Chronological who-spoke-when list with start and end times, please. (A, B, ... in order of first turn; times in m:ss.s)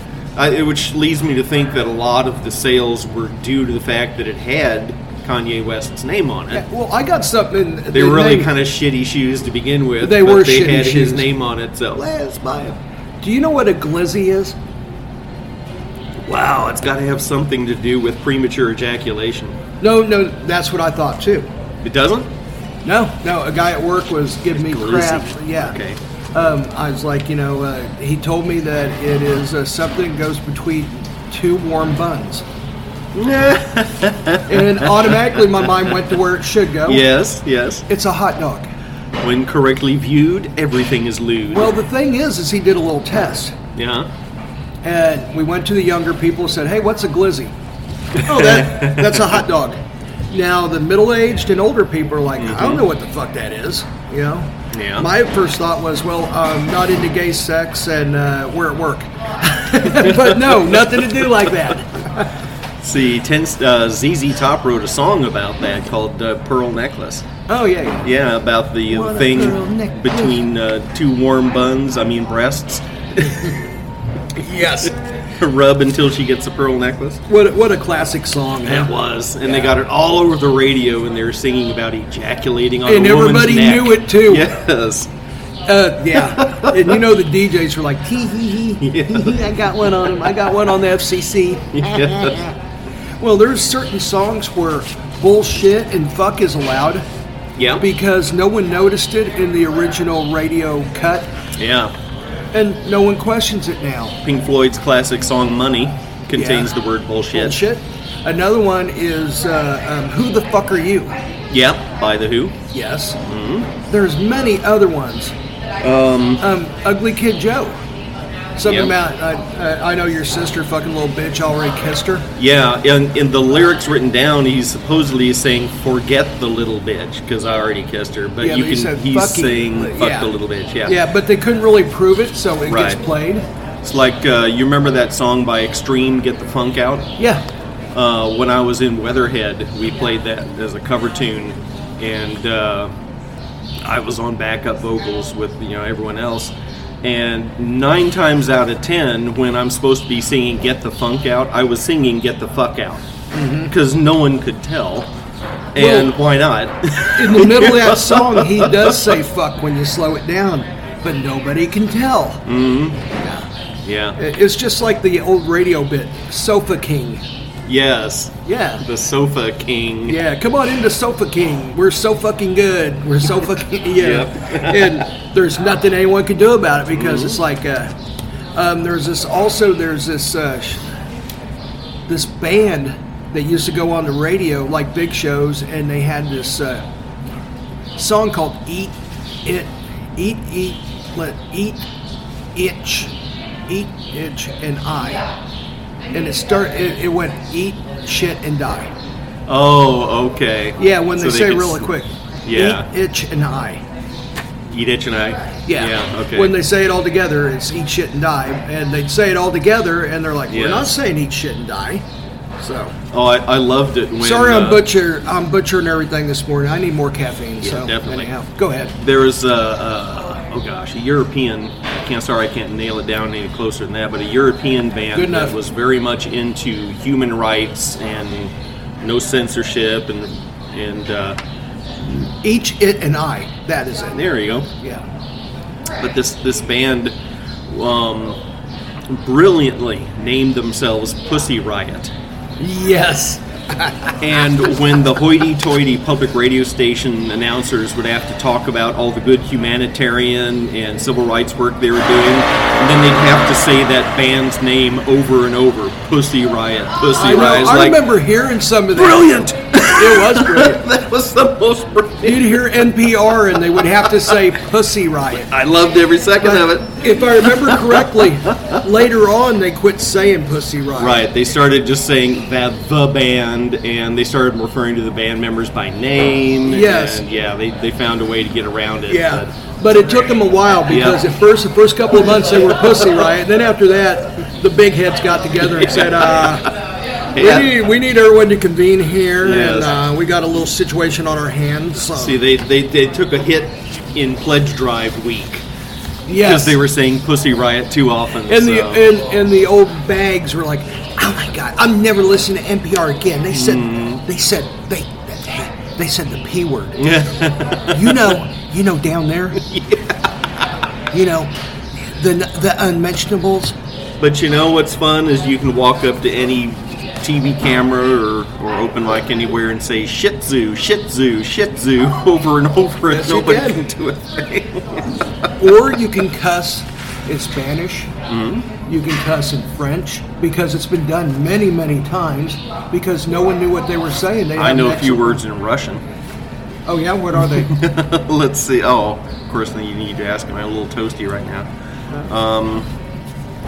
0:00.4-0:06.6 A
0:06.5-0:08.5 B
0:07.9-0:12.8 A
0:10.0-0:11.3 B
0:13.2-0:14.6 B
0:16.2-0:19.6 A
0:19.8-0:21.5 B
0:21.8-0:22.3 A
0:22.8-0:25.8 B
0:24.5-0:26.0 A
0:26.3-0:32.4 B
0:33.1-0:36.0 A
0:34.5-0:37.0 B
0:36.8-0:37.8 A
0:37.9-0:38.7 B
0:39.2-0:41.7 A
0:41.5-0:43.6 B
0:43.7-0:44.1 A
0:44.8-0:47.5 B
0:48.2-0:49.4 A
0:48.2-0:49.8 B
0:50.3-1:02.3 B
0:52.4-0:52.8 A
0:54.7-0:55.1 A
1:00.0-1:01.2 A
1:02.8-1:07.3 A
1:07.5-1:08.0 B
1:08.0-1:13.5 A
1:08.9-1:10.4 B
1:14.3-1:14.9 B
1:15.3-1:17.2 A
1:17.3-1:19.7 B
1:18.6-1:25.1 A
1:22.8-1:24.5 B
1:25.7-1:32.5 B
1:26.1-1:27.0 A
1:28.8-1:30.5 A
1:31.7-1:32.5 A
1:33.2-1:37.0 B
1:37.6-1:37.8 A
1:37.8-1:41.3 B
1:41.6-1:41.9 A
1:42.5-1:44.2 B
1:44.2-1:47.6 A
1:46.3-1:46.7 B
1:47.3-1:51.1 B
1:51.5-1:52.6 A
1:52.7-1:53.2 B
1:53.2-1:53.7 A
1:53.9-1:55.3 B
1:55.8-1:56.4 A
1:56.4-1:57.8 B
1:58.6-2:02.3 B
1:58.6-1:58.9 A
2:02.4-2:11.0 A
2:08.4-2:10.3 B
2:10.8-2:13.5 B
2:12.7-2:13.0 A
2:13.8-2:17.2 A
2:17.2-2:17.4 B
2:17.9-2:22.9 A
2:23.8-2:33.0 A
2:33.3-2:33.7 B
2:33.6-2:35.1 A
2:35.7-2:39.2 A
2:35.8-2:36.1 B
2:37.1-2:42.4 B
2:42.4-2:43.0 A
2:43.2-2:43.5 B
2:43.8-2:44.2 A
2:44.2-2:47.2 B
2:47.6-2:50.2 A
2:48.4-2:48.8 B
2:50.1-2:57.9 B
2:53.9-2:55.1 A
2:56.9-2:57.4 A
2:58.5-3:00.8 B
3:02.1-3:06.8 B
3:08.0-3:11.9 B
3:12.5-3:13.1 B
3:13.7-3:15.3 B
3:16.1-3:18.9 B
3:19.5-3:21.9 A
3:20.8-3:23.8 B
3:22.4-3:22.9 A
3:24.7-3:26.6 A
3:25.7-3:32.0 B
3:30.5-3:30.9 A
3:32.6-3:33.0 B
3:33.1-3:34.9 A
3:34.2-3:38.9 B
3:37.6-3:38.3 A
3:39.0-3:51.4 A
3:45.1-3:45.6 B
3:52.2-3:54.2 B
3:54.1-3:54.7 A
3:54.8-3:55.0 B
3:56.0-3:57.2 A
3:57.7-3:58.4 A
3:59.1-4:02.1 A
4:02.6-4:04.1 B
4:04.2-4:18.1 A
4:17.1-4:20.8 B
4:18.9-4:22.7 A
4:22.2-4:25.5 B
4:23.7-4:24.4 A
4:25.3-4:28.8 A
4:26.4-4:31.2 B
4:31.0-4:39.6 A
4:36.6-4:37.2 B
4:39.1-4:46.7 B
4:40.9-4:41.2 A
4:45.8-4:46.6 A
4:47.3-4:47.7 A
4:47.4-4:52.4 B
4:49.4-4:50.0 A
4:52.1-4:55.6 A
4:56.2-4:56.8 B
4:56.3-4:59.1 A
4:58.5-5:07.2 B
5:03.5-5:04.2 A
5:07.0-5:08.4 A
5:07.9-5:09.6 B
5:09.6-5:10.6 A
5:11.1-5:13.8 B
5:14.2-5:25.2 A
5:23.1-5:23.8 B
5:25.6-5:28.1 B
5:28.3-5:28.7 A
5:28.8-5:35.4 B
5:34.6-5:36.0 A
5:36.9-5:37.8 B
5:37.4-5:41.7 A
5:42.3-5:42.9 A